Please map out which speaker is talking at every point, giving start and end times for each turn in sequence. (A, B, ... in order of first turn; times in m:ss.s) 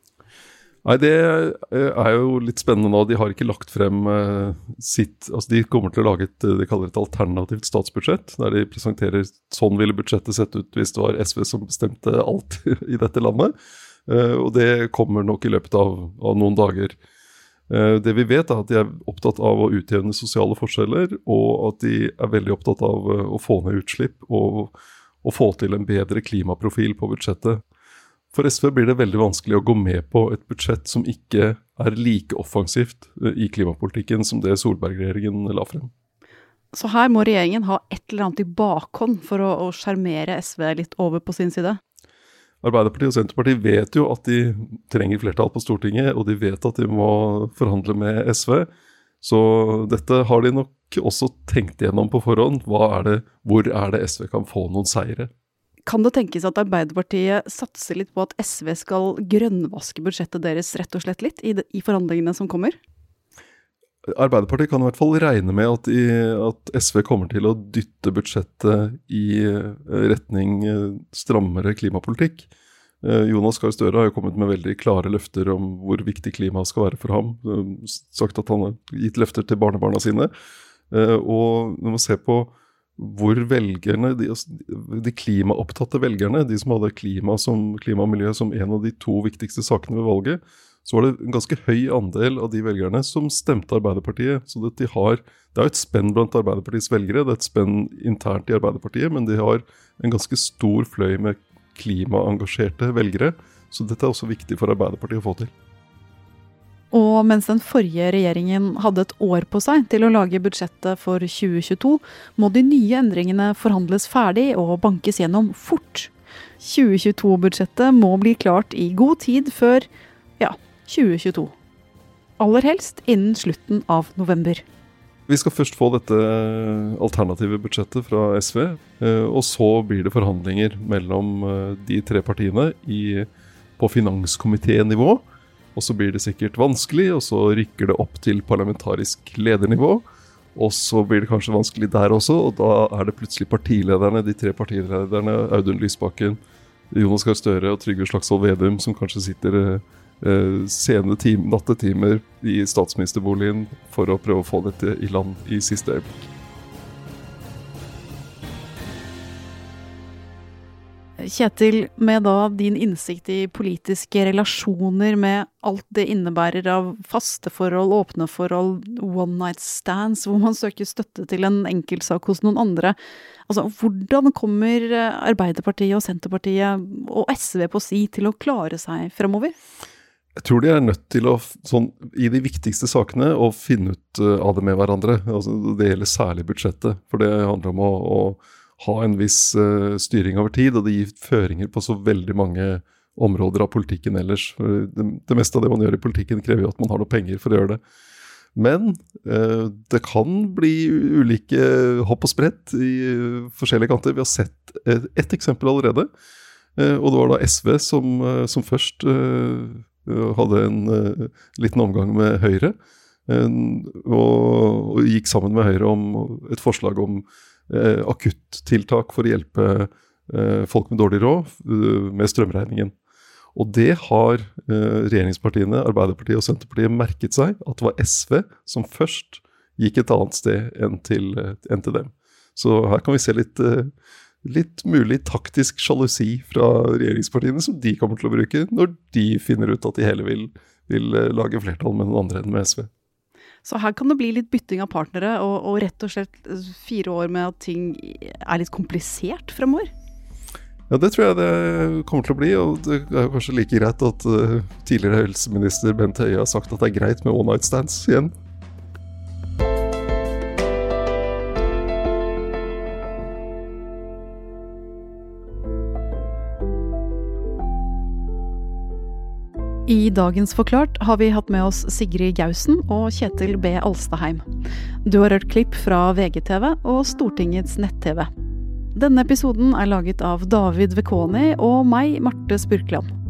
0:00.8-0:13.5 A
0:14.1-0:17.0 A
0:17.7-0:27.6 A
0:28.3-0:35.9 A
0:36.7-0:41.8 B
0:42.6-0:48.7 A
0:49.2-0:55.3 A
0:55.8-1:02.8 B
1:04.1-1:12.5 A
1:13.0-1:20.3 A
1:20.9-1:45.5 A
1:46.9-1:59.9 B
2:00.4-2:01.5 B
2:02.4-2:04.6 B
2:05.3-2:15.2 A
2:15.8-2:26.4 A
2:26.9-2:36.2 A
2:41.2-2:53.0 B
2:53.5-2:59.5 B
3:00.4-3:17.8 A
3:18.6-3:26.1 A
3:26.8-3:32.7 A
3:33.3-3:42.9 A
3:43.5-3:53.9 A
3:54.4-4:02.9 A
4:03.6-4:09.9 B
4:10.9-4:18.3 A
4:29.8-4:34.4 B
4:35.0-4:38.3 B
4:38.9-4:43.1 B